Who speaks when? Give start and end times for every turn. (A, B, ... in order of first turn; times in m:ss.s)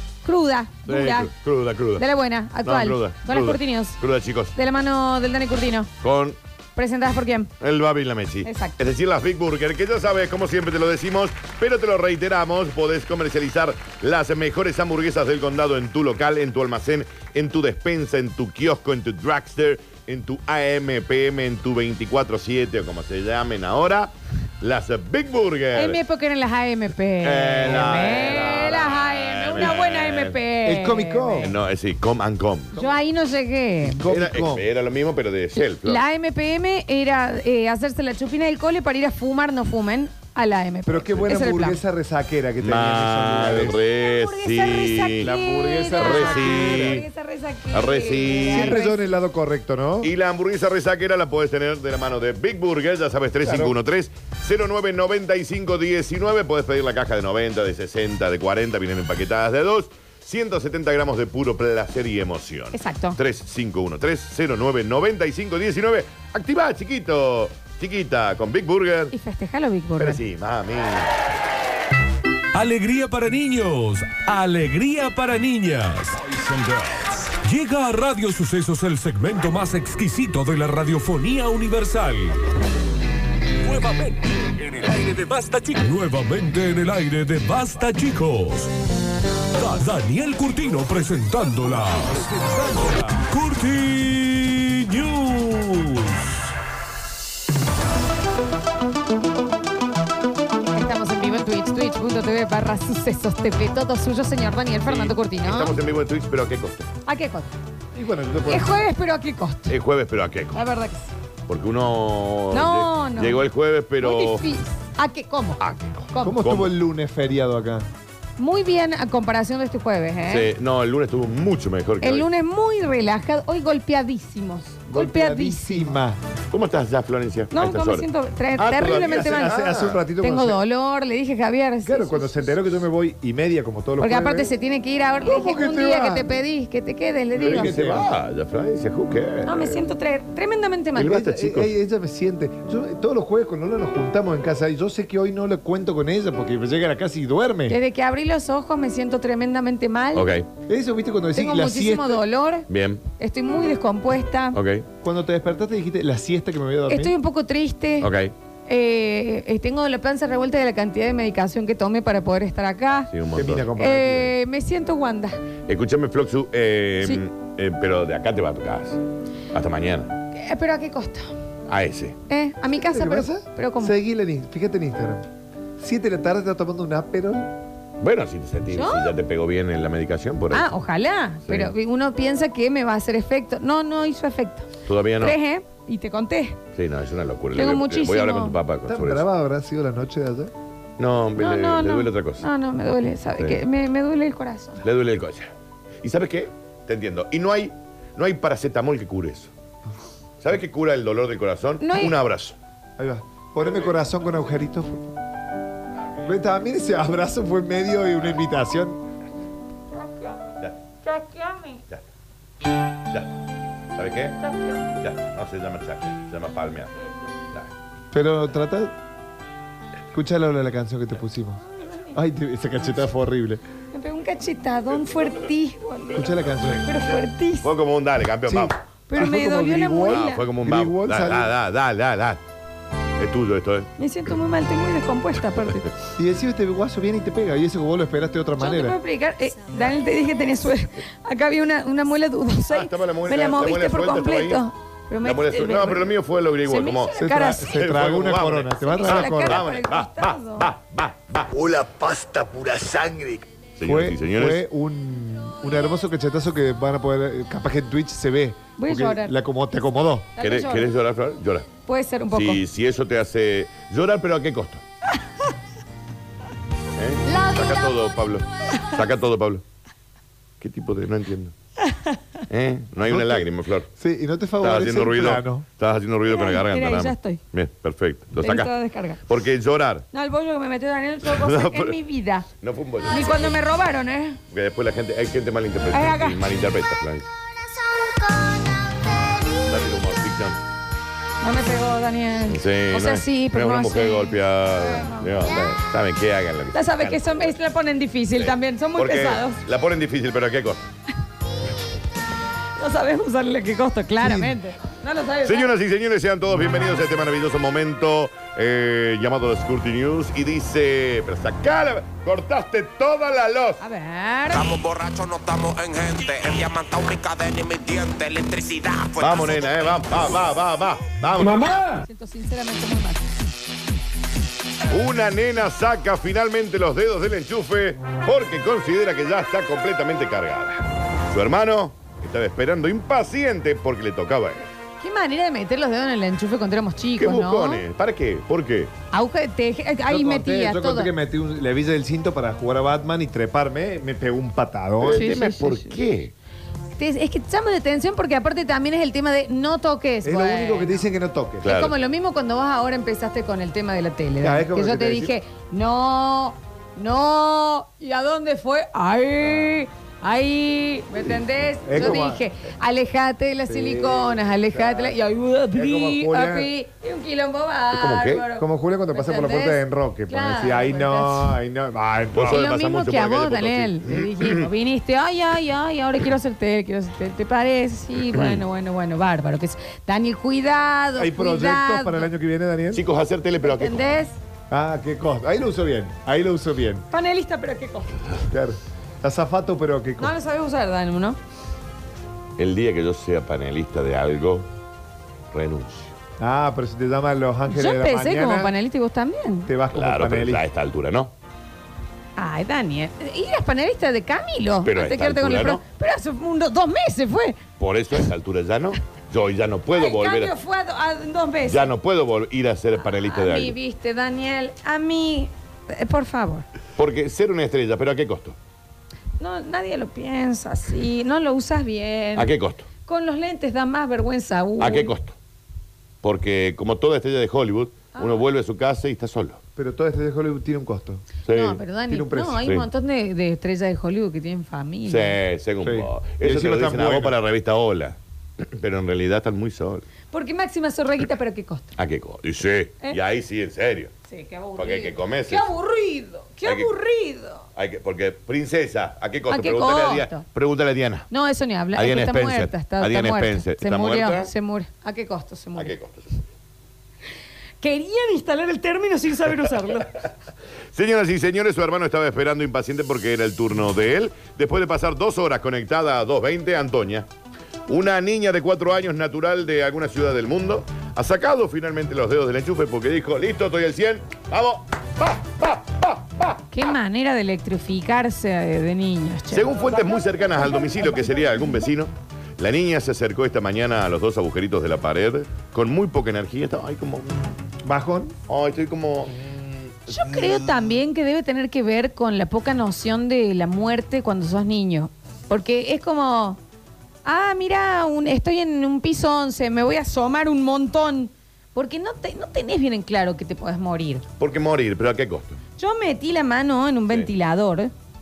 0:00.2-0:01.3 A
0:00.9-0:02.0 B
0:02.0-0:04.0 A
0:02.6-0:04.5 B
0:04.5-0:05.9 A
0:06.0-0:06.4 B
0:06.8-0:07.5 A
0:07.6-0:26.0 B
0:08.4-0:08.7 A
0:25.7-0:31.5 A
0:27.2-0:30.4 B
0:30.6-0:31.5 C
0:31.4-0:32.8 B
0:32.7-0:34.0 A
0:33.8-0:34.6 C
0:34.1-0:36.0 B
0:35.6-0:41.8 A
0:40.8-0:43.8 C
0:42.6-0:45.3 B
0:43.9-0:49.1 A
0:45.2-0:47.0 C
0:46.0-0:47.0 B
0:47.7-0:48.8 B
0:48.5-0:50.1 C
0:50.0-1:09.1 B
0:53.4-0:53.8 C
1:02.7-1:03.2 A
1:09.1-1:10.2 A
1:10.0-1:11.1 B
1:12.5-1:22.4 D
1:23.6-1:28.7 D
1:29.5-1:36.5 D
1:40.7-1:45.7 A
1:44.8-1:46.9 B
1:47.0-1:47.5 A
1:47.9-1:48.7 C
1:48.5-1:49.7 A
1:49.7-1:50.6 B
1:50.5-1:51.1 A
1:51.5-1:54.4 B
1:52.5-1:53.4 A
1:54.0-1:55.6 A
1:55.6-1:56.7 B
1:56.1-1:56.4 A
1:56.2-1:57.9 C
1:58.4-2:00.5 A
2:00.3-2:02.3 B
2:02.0-2:06.0 A
2:04.9-2:06.2 C
2:06.5-2:10.0 B
2:07.5-2:09.6 A
2:09.0-2:10.6 C
2:10.2-2:12.6 A
2:11.8-2:14.5 C
2:14.0-2:17.7 A
2:15.2-2:16.4 C
2:17.4-2:18.1 C
2:17.4-2:19.8 B
2:19.4-2:21.2 A
2:21.0-2:21.7 B
2:21.0-2:27.8 C
2:27.7-2:30.3 A
2:30.1-2:30.4 B
2:30.7-2:32.2 C
2:31.3-2:32.7 A
2:32.7-2:33.0 B
2:33.2-2:34.6 A
2:34.5-2:34.8 B
2:35.0-2:37.1 C
2:36.9-2:38.1 A
2:38.0-2:38.3 B
2:38.7-2:43.1 A
2:43.1-2:43.7 B
2:43.3-2:44.3 C
2:43.8-2:45.4 A
2:45.7-2:49.0 B
2:49.5-2:50.1 B
2:50.3-2:51.3 A
2:51.7-2:52.2 B
2:52.3-2:53.9 A
2:52.8-2:57.5 C
2:58.0-3:00.7 B
2:58.7-2:59.1 A
3:00.5-3:06.6 A
3:01.5-3:01.7 B
3:04.8-3:05.4 B
3:06.7-3:09.2 B
3:07.5-3:08.6 A
3:08.9-3:10.5 C
3:11.0-3:12.4 B
3:11.4-3:14.8 A
3:13.4-3:13.6 B
3:14.8-3:15.5 B
3:16.0-3:19.5 B
3:20.4-3:22.6 B
3:21.8-3:22.2 A
3:23.0-3:25.2 C
3:26.2-3:29.0 C
3:31.0-3:31.8 A
3:33.9-3:34.4 B
3:34.4-3:34.8 A
3:35.0-3:36.9 B
3:38.1-3:38.9 C
3:40.1-3:41.6 C
3:41.8-3:42.1 A
3:42.1-3:43.6 C
3:43.9-3:47.7 A
3:46.1-3:46.8 C
3:46.6-3:48.8 B
3:48.5-3:51.5 C
3:49.1-3:50.4 A
3:50.1-3:52.4 B
3:53.2-3:53.9 B
3:54.0-3:55.9 A
3:56.2-3:59.0 C
3:58.6-4:06.1 A
4:02.7-4:04.6 B
4:05.2-4:07.1 B
4:06.6-4:07.8 A
4:07.2-4:09.6 C
4:07.6-4:11.5 B
4:08.8-4:10.7 A
4:11.5-4:13.5 E
4:13.8-4:14.6 B
4:13.8-4:20.3 C
4:18.8-4:19.3 A
4:20.4-4:20.9 A
4:20.4-4:21.7 B
4:21.8-4:22.6 A
4:22.3-4:24.8 B
4:27.0-4:29.6 B
4:27.3-4:27.7 A
4:30.6-4:31.5 B
4:31.8-4:32.2 A
4:32.5-4:33.9 B
4:33.0-4:35.6 C
4:34.6-4:38.7 B
4:36.3-4:37.4 A
4:38.4-4:39.2 A
4:39.2-4:40.0 B
4:40.1-4:42.5 A
4:41.2-4:42.0 B
4:42.6-4:43.5 B
4:43.1-4:44.4 A
4:44.5-4:47.3 B
4:45.9-4:46.4 A
4:49.6-4:50.6 B
4:51.4-4:55.3 A
4:52.5-4:57.5 B
4:56.7-4:59.6 A
4:58.4-5:00.8 B
5:02.8-5:05.7 A
5:04.2-5:04.6 C
5:05.4-5:13.8 B
5:13.8-5:14.7 A
5:14.5-5:20.0 F
5:19.2-5:21.8 B
5:22.0-5:23.3 A
5:24.9-5:34.6 B
5:35.0-5:37.8 A
5:37.2-5:38.9 B
5:39.1-5:41.1 A
5:40.1-5:45.3 C
5:45.0-5:46.3 B
5:45.0-5:46.0 A
5:47.0-5:51.0 A
5:50.2-5:51.6 C
5:51.6-5:51.9 B
5:51.6-6:11.5 A
5:54.4-5:55.3 C
6:01.8-6:02.4 C
6:03.6-6:05.2 C
6:05.7-6:06.7 C
6:07.9-6:08.4 B
6:08.5-6:12.6 C
6:12.3-6:14.6 B
6:12.4-6:22.3 A
6:18.3-6:18.6 B
6:21.2-6:23.0 C
6:22.9-6:24.0 B
6:23.6-6:24.4 A
6:24.7-6:27.0 C
6:27.1-6:28.2 A
6:28.5-6:30.3 C
6:30.2-6:31.4 A
6:32.6-6:34.7 B
6:35.5-6:36.1 B
6:36.4-6:38.7 C
6:37.7-6:39.7 A
6:39.7-6:40.6 C
6:39.9-6:41.3 B
6:42.4-6:47.6 A
6:44.8-6:45.8 B
6:47.8-6:50.5 B
6:49.9-6:51.9 A
6:51.7-6:53.8 B
6:53.0-6:56.6 A
6:57.0-6:58.6 B
6:59.4-7:02.5 A
7:02.4-7:02.8 B
7:03.0-7:05.1 A
7:04.8-7:05.3 B
7:06.2-7:09.6 B
7:08.1-7:08.4 A
7:09.8-7:11.2 C
7:11.5-7:11.8 B
7:11.5-7:15.4 A
7:12.1-7:12.6 C
7:15.0-7:20.0 B
7:15.8-7:17.4 C
7:20.3-7:21.9 A
7:22.0-7:24.1 B
7:24.3-7:27.6 A
7:24.8-7:25.7 B
7:26.6-7:26.9 B
7:27.8-7:31.3 B
7:29.5-7:30.4 A
7:31.3-7:35.9 A
7:31.9-7:34.5 B
7:35.8-7:36.4 B
7:37.8-7:40.2 A
7:40.9-7:47.3 B
7:47.9-7:56.6 B
7:56.7-8:01.8 A
7:59.5-8:07.4 B
8:07.8-8:08.3 C
8:08.5-8:10.6 B
8:10.1-8:16.6 A
8:17.2-8:24.2 A
8:24.4-8:25.6 B
8:25.8-8:27.9 A